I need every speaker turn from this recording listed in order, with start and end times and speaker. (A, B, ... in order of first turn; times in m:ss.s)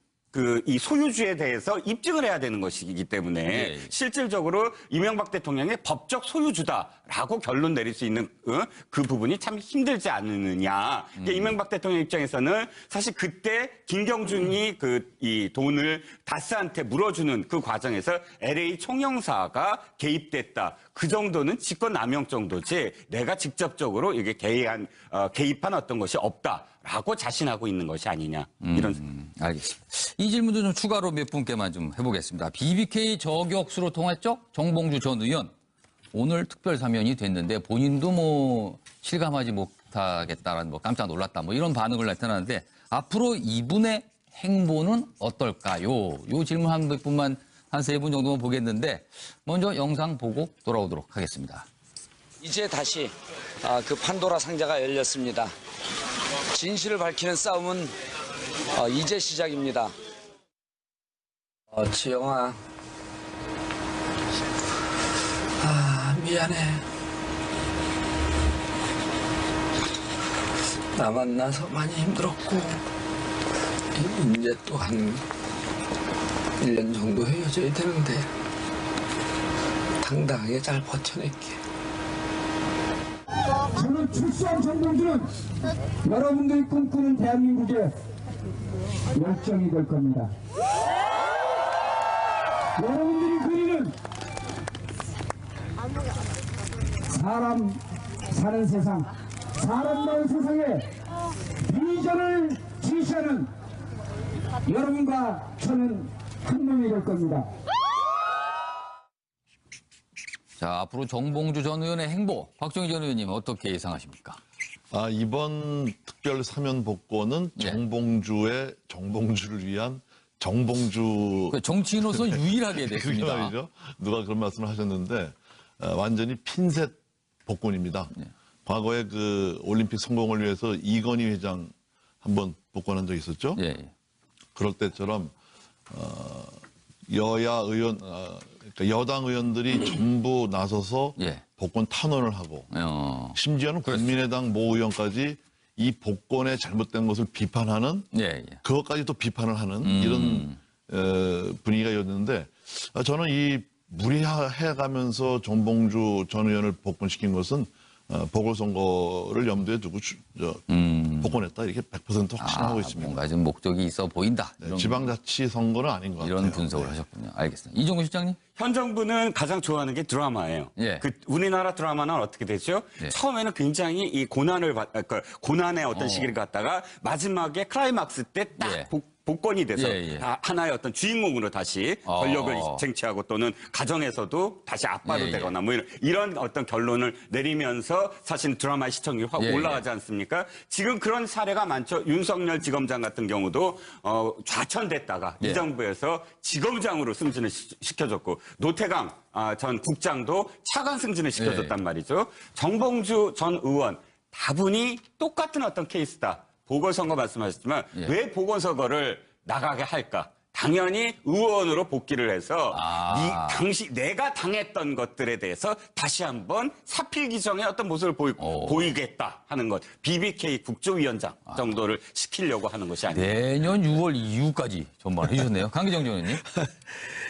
0:00.3-0:29.0 A
0:03.5-0:03.9 B
0:11.2-0:11.6 B
0:28.6-0:35.5 B
0:36.1-0:51.7 B
0:52.4-0:55.5 C
0:56.5-0:57.9 C
0:58.7-0:59.9 C
1:01.7-1:02.6 C
1:05.6-1:06.8 C
1:11.0-1:12.8 C
1:13.9-1:15.2 C
1:16.6-1:18.3 C
1:20.0-1:21.6 C
1:23.8-1:25.2 D
1:26.0-1:27.9 D
1:29.2-1:30.3 D
1:32.8-1:33.9 D
1:37.1-1:37.8 D
1:38.3-1:39.0 D
1:39.6-1:40.8 D
1:41.7-1:43.5 D
1:44.7-1:47.4 D
1:50.6-1:54.4 B
1:54.9-2:08.1 E
2:01.5-2:03.5 B
2:08.6-2:13.6 E
2:13.6-2:13.9 B
2:14.6-2:15.3 E
2:15.9-2:22.7 E
2:21.2-2:21.4 B
2:22.7-2:24.1 B
2:23.3-2:28.1 E
2:28.1-2:28.6 B
2:28.6-2:40.6 E
2:29.8-2:30.6 B
2:40.7-2:41.4 B
2:41.2-2:43.2 E
2:42.4-2:45.1 B
2:44.6-2:47.0 E
2:46.2-2:48.4 B
2:48.6-3:43.3 A
2:50.8-2:51.0 B
2:55.9-2:56.3 B
2:58.6-2:58.9 B
2:59.8-3:00.2 B
3:02.0-3:02.8 B
3:05.0-3:05.5 B
3:09.4-3:09.8 B
3:15.4-3:15.6 B
3:21.4-3:21.8 B
3:32.7-3:33.6 B
3:38.4-3:38.9 B
3:43.1-3:46.4 B